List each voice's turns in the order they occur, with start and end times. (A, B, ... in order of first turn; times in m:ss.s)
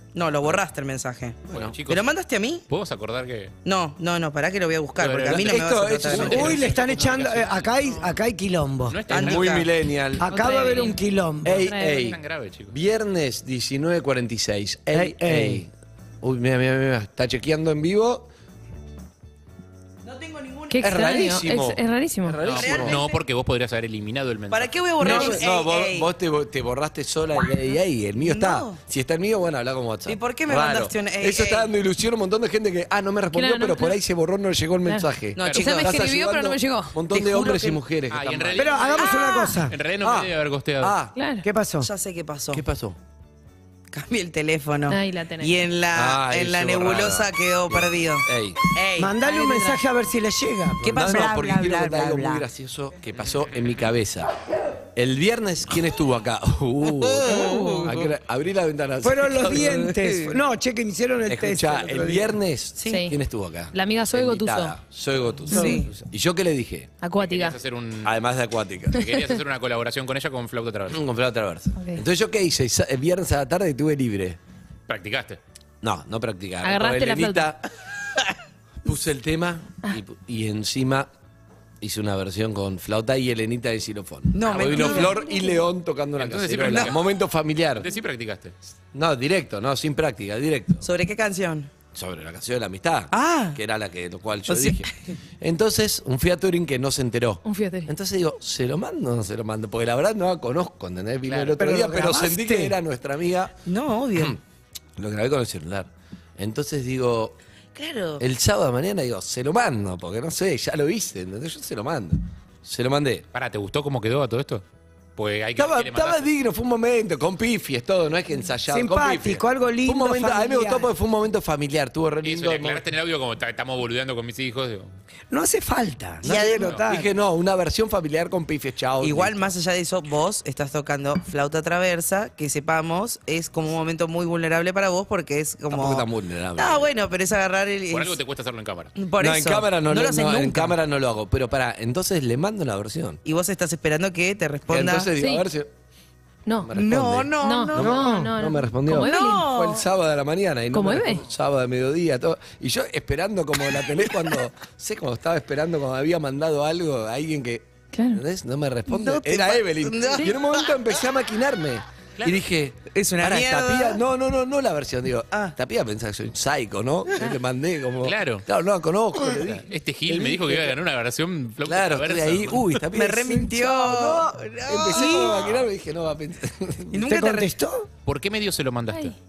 0:00.1-0:02.6 A
0:01.5-0:01.8 B
0:01.5-0:02.1 C
0:02.7-0:03.5 C
0:03.6-0:06.7 A
0:05.0-0:08.1 C
0:05.2-0:06.9 B
0:06.2-0:09.1 D
0:08.9-0:09.7 C
0:09.1-0:10.3 B
0:09.1-0:09.7 A
0:10.2-0:11.6 D
0:10.3-0:12.1 E
0:11.4-0:12.2 B
0:11.9-0:12.7 C
0:12.7-0:18.3 B
0:14.9-0:15.6 D
0:20.0-0:21.4 A
0:20.7-0:22.4 E
0:20.8-0:23.0 B
0:22.4-0:24.7 C
0:22.6-0:23.2 A
0:24.5-0:26.1 A
0:25.0-0:38.7 B
0:28.2-0:28.8 A
0:30.0-0:31.7 A
0:33.3-0:34.0 E
0:34.9-0:37.0 E
0:35.4-0:35.9 A
0:35.4-0:35.7 C
0:37.1-0:37.8 A
0:38.1-0:40.9 C
0:38.6-0:39.7 D
0:39.0-0:39.5 A
0:40.0-0:41.1 B
0:41.2-0:41.4 E
0:41.4-0:41.9 D
0:41.8-0:42.6 A
0:42.5-0:43.0 B
0:43.9-0:49.1 A
0:44.9-0:45.6 E
0:45.9-0:48.6 B
0:49.0-0:51.7 D
0:49.2-0:49.8 E
0:50.8-0:52.4 A
0:50.9-0:54.3 B
0:54.9-0:59.8 B
0:56.8-0:58.0 A
0:57.3-0:57.8 D
0:59.0-1:02.3 D
0:59.5-1:00.4 A
1:01.3-1:06.9 B
1:02.8-1:03.1 E
1:03.7-1:04.7 E
1:05.5-1:05.9 D
1:05.5-1:05.9 A
1:07.0-1:07.6 E
1:07.2-1:08.1 C
1:08.0-1:09.1 B
1:08.9-1:11.0 C
1:10.9-1:14.4 B
1:11.8-1:12.0 E
1:14.9-1:15.4 C
1:15.8-1:17.6 B
1:16.6-1:17.5 E
1:18.8-1:21.1 B
1:21.8-1:27.9 B
1:24.3-1:25.5 A
1:24.8-1:25.4 E
1:26.2-1:27.0 C
1:26.6-1:26.9 A
1:27.8-1:28.5 C
1:28.9-1:30.9 B
1:30.8-1:31.7 A
1:31.9-1:43.5 B
1:33.1-1:33.6 A
1:34.5-1:34.9 A
1:37.4-1:37.9 E
1:41.2-1:41.6 C
1:41.6-1:42.7 D
1:43.6-1:44.4 A
1:45.0-1:47.4 B
1:47.7-1:48.2 A
1:48.2-1:53.2 B
1:53.3-1:54.6 C
1:55.2-1:56.2 C
1:55.6-2:02.8 B
1:58.7-2:00.9 D
2:02.2-2:04.9 C
2:05.3-2:07.1 D
2:06.2-2:09.5 B
2:06.2-2:06.7 A
2:09.0-2:18.2 A
2:15.7-2:16.9 B
2:17.9-2:18.9 C
2:19.0-2:20.7 A
2:19.2-2:23.2 B
2:23.2-2:25.1 A
2:24.7-2:25.7 B
2:25.2-2:25.4 E
2:26.5-2:26.7 E
2:26.6-2:50.8 B
2:26.7-2:28.2 A
2:27.4-2:29.5 E
2:28.0-2:28.3 D
2:29.0-2:29.8 A
2:30.7-2:31.2 E
2:37.9-2:38.2 E
2:38.9-2:40.7 A
2:42.9-2:44.0 A
2:48.0-2:48.4 C
2:49.3-2:52.8 C
2:51.6-2:57.0 B
2:52.9-2:55.5 A
2:55.0-2:55.3 D
2:56.9-2:57.5 A
2:57.0-2:57.9 D
2:58.0-2:59.1 C